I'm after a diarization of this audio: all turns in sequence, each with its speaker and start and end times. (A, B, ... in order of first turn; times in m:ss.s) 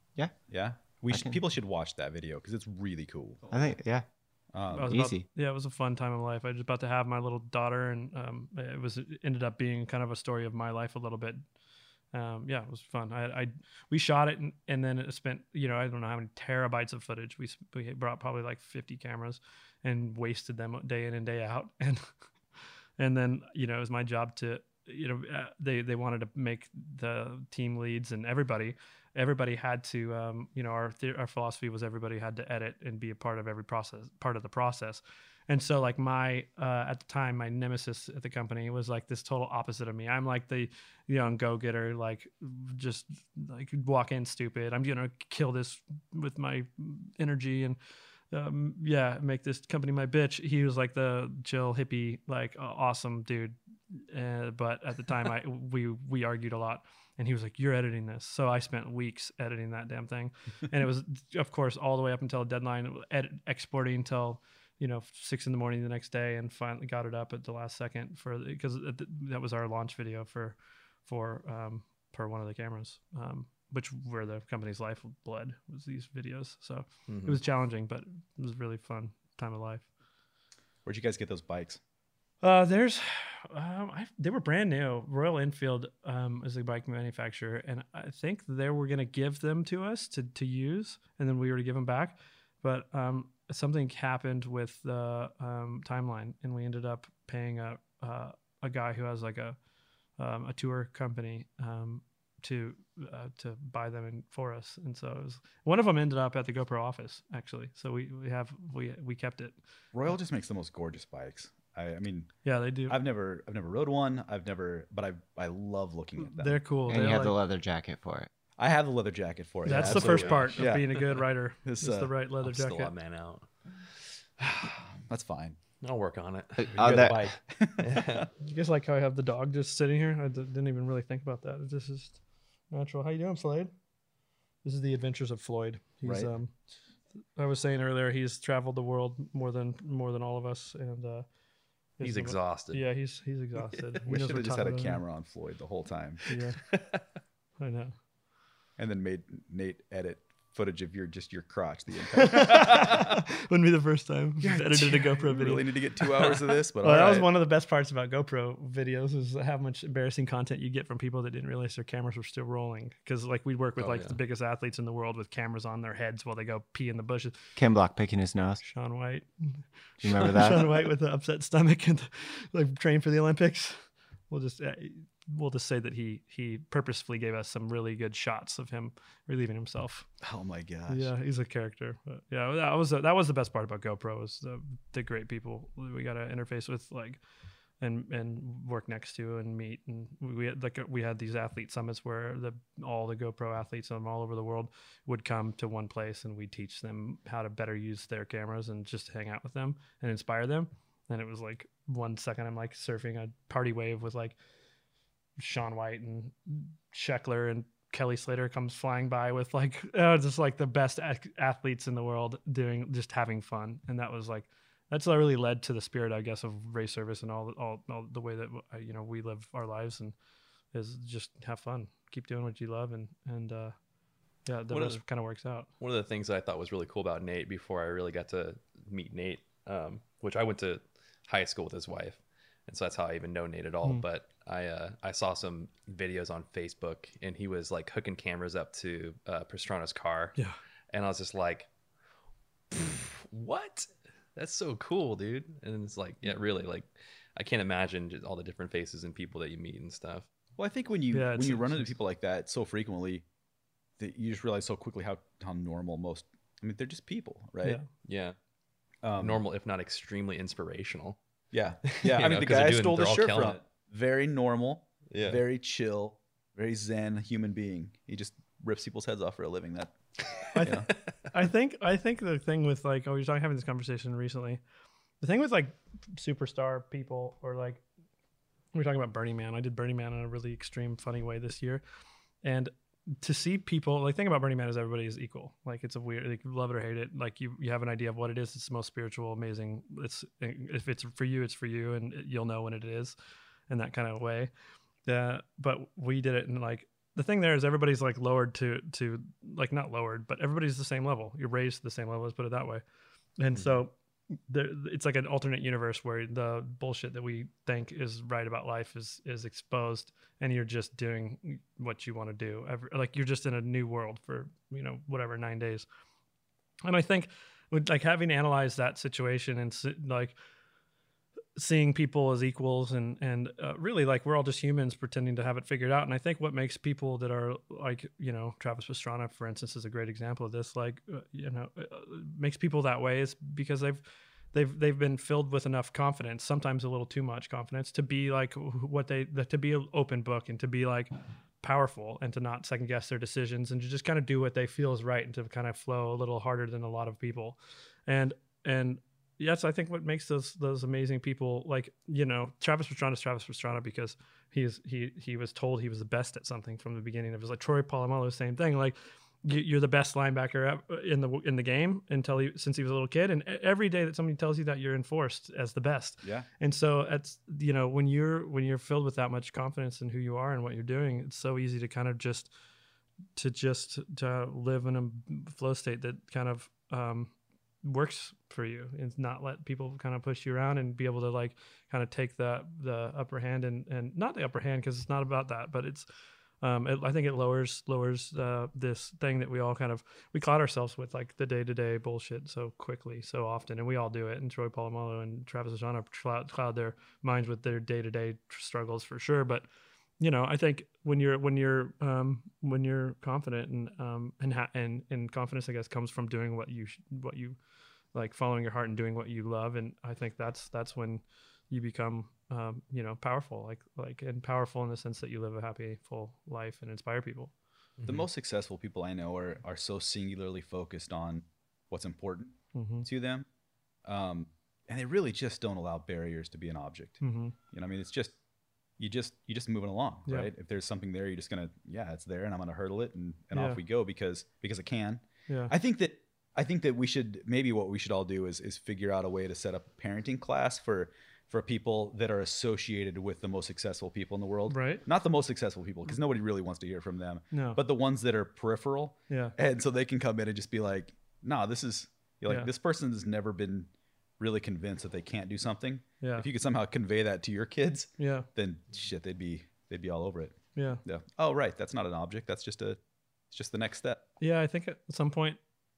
0:00.5-0:03.7 A
0:01.1-0:01.4 B
0:03.5-0:04.0 B
0:04.5-0:05.0 A
0:04.7-0:11.4 C
0:04.8-0:05.2 B
0:12.1-0:22.2 C
0:23.0-0:47.8 C
0:48.3-1:19.8 C
1:17.1-1:17.4 D
1:20.8-1:21.8 A
1:22.4-1:39.6 C
1:40.2-1:49.5 C
1:49.9-1:56.6 A
1:52.4-1:53.0 C
1:56.2-1:57.3 C
1:56.9-1:58.3 B
1:58.6-2:02.1 A
1:59.6-2:02.9 C
1:59.7-2:01.1 D
2:02.4-2:03.5 D
2:04.4-2:05.6 A
2:05.8-2:06.8 D
2:06.6-2:07.3 B
2:06.8-2:08.3 A
2:07.8-2:08.3 D
2:08.4-2:13.7 C
2:14.6-2:16.6 C
2:16.0-2:16.3 A
2:17.3-2:21.3 C
2:22.0-2:25.0 C
2:22.0-2:22.8 D
2:24.1-2:26.2 A
2:26.3-2:26.6 C
2:27.6-2:27.9 C
2:28.8-2:33.1 A
2:32.2-2:47.3 C
2:34.4-2:37.3 A
2:43.8-2:44.2 D
2:47.6-2:48.6 B
2:48.6-3:00.1 C
2:50.0-2:50.7 B
3:00.2-3:01.1 A
3:00.9-3:07.2 C
3:07.8-3:24.4 C
3:25.4-3:40.1 C
3:40.7-3:43.8 C
3:44.4-3:45.7 C
3:44.7-3:45.0 D
3:45.8-4:00.4 D
4:00.9-4:01.7 D
4:02.7-4:10.3 D
4:10.6-4:13.2 A
4:11.1-4:11.9 C
4:14.0-4:17.8 A
4:18.0-4:18.4 D
4:19.0-4:19.4 A
4:19.2-4:21.2 D
4:21.5-4:30.0 A
4:21.9-4:23.6 D
4:25.1-4:25.4 D
4:30.5-4:34.6 C
4:30.6-4:30.9 A
4:35.2-4:37.8 C
4:38.7-4:41.8 C
4:42.4-4:53.1 C
4:53.7-4:54.5 C
4:55.0-5:02.8 C
5:03.4-5:03.9 C
5:04.5-5:15.8 C
5:16.8-5:20.3 C
5:21.6-6:12.5 C
6:06.2-6:06.5 A
6:13.4-6:26.0 C
6:26.6-6:39.6 C
6:40.2-6:47.6 C
6:48.1-6:57.5 C
6:58.0-6:58.3 D
6:58.0-7:03.5 A
7:02.7-7:03.1 C
7:04.0-7:08.3 A
7:07.2-7:07.5 C
7:09.0-7:43.0 A
7:13.5-7:13.8 C
7:15.5-7:15.7 C
7:24.7-7:25.0 C
7:27.5-7:27.8 C
7:29.3-7:29.5 C
7:38.2-7:38.5 C
7:40.7-7:41.0 C
7:43.5-7:44.2 A
7:44.4-7:45.6 C